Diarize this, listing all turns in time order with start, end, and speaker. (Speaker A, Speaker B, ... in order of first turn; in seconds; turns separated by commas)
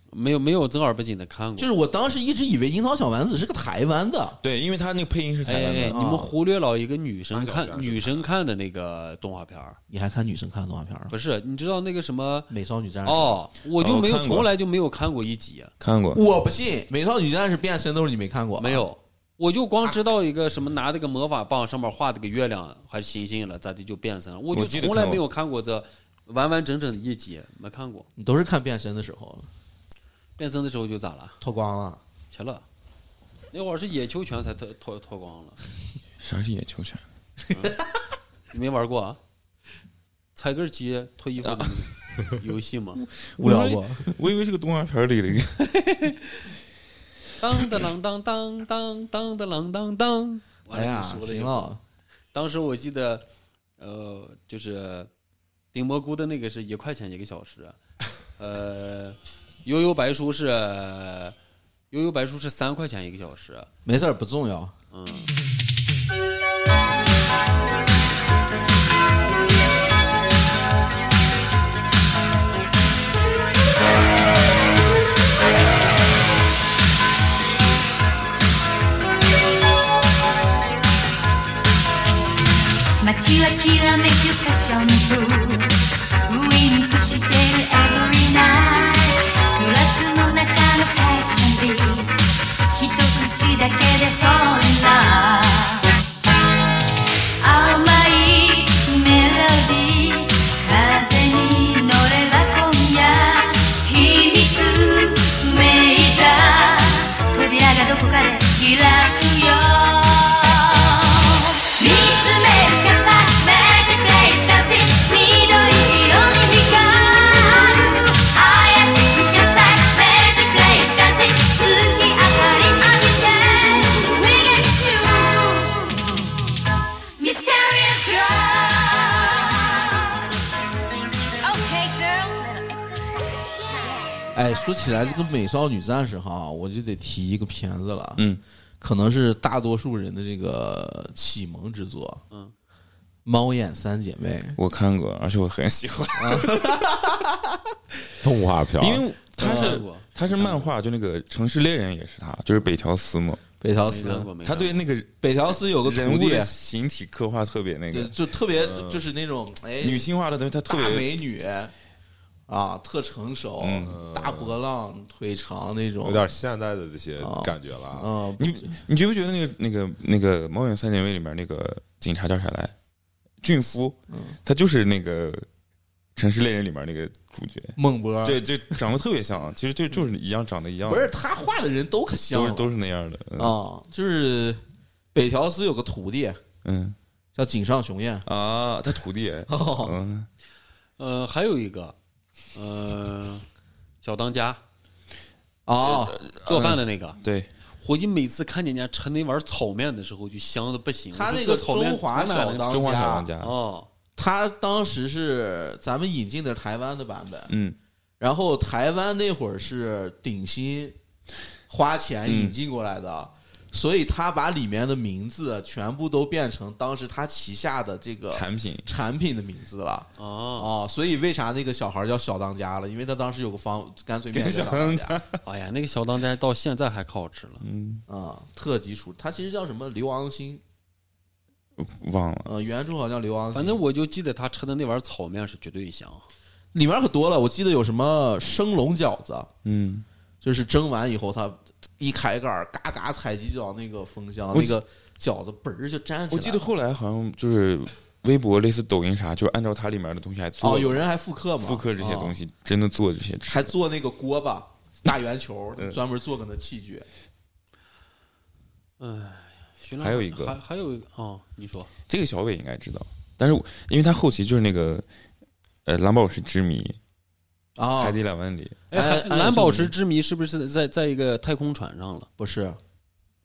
Speaker A: 0.1-1.7, Speaker B: 1.6-4.4, Speaker C: 4.4-6.0, Speaker A: 5.5-9.8, Speaker B: 5.9-6.3, Speaker D: 7.3-8.3, Speaker B: 9.9-11.1, Speaker A: 11.1-12.5, Speaker B: 12.5-13.4, Speaker A: 13.1-15.7, Speaker C: 13.8-14.5, Speaker C: 15.8-16.2, Speaker B: 16.1-18.8, Speaker A: 18.6-28.1, Speaker C: 24.5-25.2, Speaker B: 28.2-29.5, Speaker A: 30.4-31.4, Speaker B: 31.4-32.0, Speaker A: 32.3-32.6, Speaker A: 33.5-35.6, Speaker C: 36.2-37.0, Speaker A: 38.5-39.2, Speaker A: 40.4-43.0, Speaker C: 41.4-41.9, Speaker C: 43.0-46.1, Speaker B: 43.4-44.2, Speaker A: 47.4-51.7, Speaker B: 50.7-51.8, Speaker A: 52.3-53.3, Speaker A: 53.8-55.1, Speaker A: 55.7-57.8, Speaker A: 58.4-61.4, Speaker A: 61.9-63.7, Speaker B: 63.9-64.7, Speaker A: 64.9-65.3, Speaker E: 83.0-92.2, Speaker E: 92.7-95.9, Speaker E: 97.4-126.4, Speaker E: 127.2-130.2, Speaker E: 131.4-134.2, Speaker B: 134.3-138.2, Speaker C: 138.2-138.4, Speaker B: 138.8-142.2, Speaker B: 143.2-144.6, Speaker C: 144.6-146.8, Speaker B: 146.2-147.6, Speaker D: 148.2-149.1, Speaker C: 148.8-153.4, Speaker B: 149.4-149.8, Speaker A: 149.4-150.6, Speaker B: 153.6-154.3, Speaker A: 153.8-154.8, Speaker C: 154.4-155.1, Speaker B: 155.2-156.5, Speaker C: 155.8-158.2, Speaker B: 157.9-160.1, Speaker D: 158.5-159.1, Speaker C: 159.8-161.1, Speaker B: 160.7-161.7, Speaker B: 162.5-166.3, Speaker C: 163.6-164.0, Speaker D: 163.8-164.6, Speaker D: 166.0-168.1, Speaker B: 167.2-168.8, Speaker C: 168.4-172.8, Speaker C: 173.4-175.5, Speaker B: 174.1-174.4, Speaker C: 176.2-181.1, Speaker B: 177.8-178.8, Speaker B: 180.9-182.7, Speaker C: 182.3-183.6, Speaker B: 183.4-184.6, Speaker B: 185.1-186.4, Speaker C: 186.6-187.0, Speaker B: 187.4-188.2, Speaker C: 188.2-190.3, Speaker B: 189.5-190.0, Speaker A: 191.0-192.0, Speaker A: 192.5-193.5, Speaker A: 194.0-194.6, Speaker B: 195.7-196.2, Speaker A: 196.3-197.2, Speaker C: 196.3-197.5, Speaker A: 197.8-203.9, Speaker B: 201.1-203.3, Speaker C: 202.7-203.5, Speaker B: 204.2-207.5, Speaker C: 207.5-207.8, Speaker B: 208.2-211.0, Speaker B: 211.7-225.2, Speaker C: 212.3-212.6, Speaker C: 218.3-218.9, Speaker A: 220.2-220.7, Speaker C: 224.3-225.4, Speaker A: 225.4-227.7, Speaker C: 227.6-228.1, Speaker B: 228.1-230.6, Speaker C: 231.8-232.5, Speaker B: 232.4-233.8, Speaker A: 233.5-236.3, Speaker B: 236.7-239.5, Speaker C: 239.6-240.1, Speaker B: 240.4-246.7, Speaker C: 244.5-244.8, Speaker C: 246.3-251.1, Speaker B: 250.6-252.4, Speaker C: 251.6-253.7, Speaker B: 253.5-257.1, Speaker A: 259.0-261.9, Speaker C: 260.0-260.6, Speaker C: 262.1-265.1, Speaker C: 265.9-267.0, Speaker B: 267.8-268.2, Speaker C: 268.0-268.8, Speaker A: 268.9-272.3, Speaker B: 268.9-269.9, Speaker B: 272.4-272.8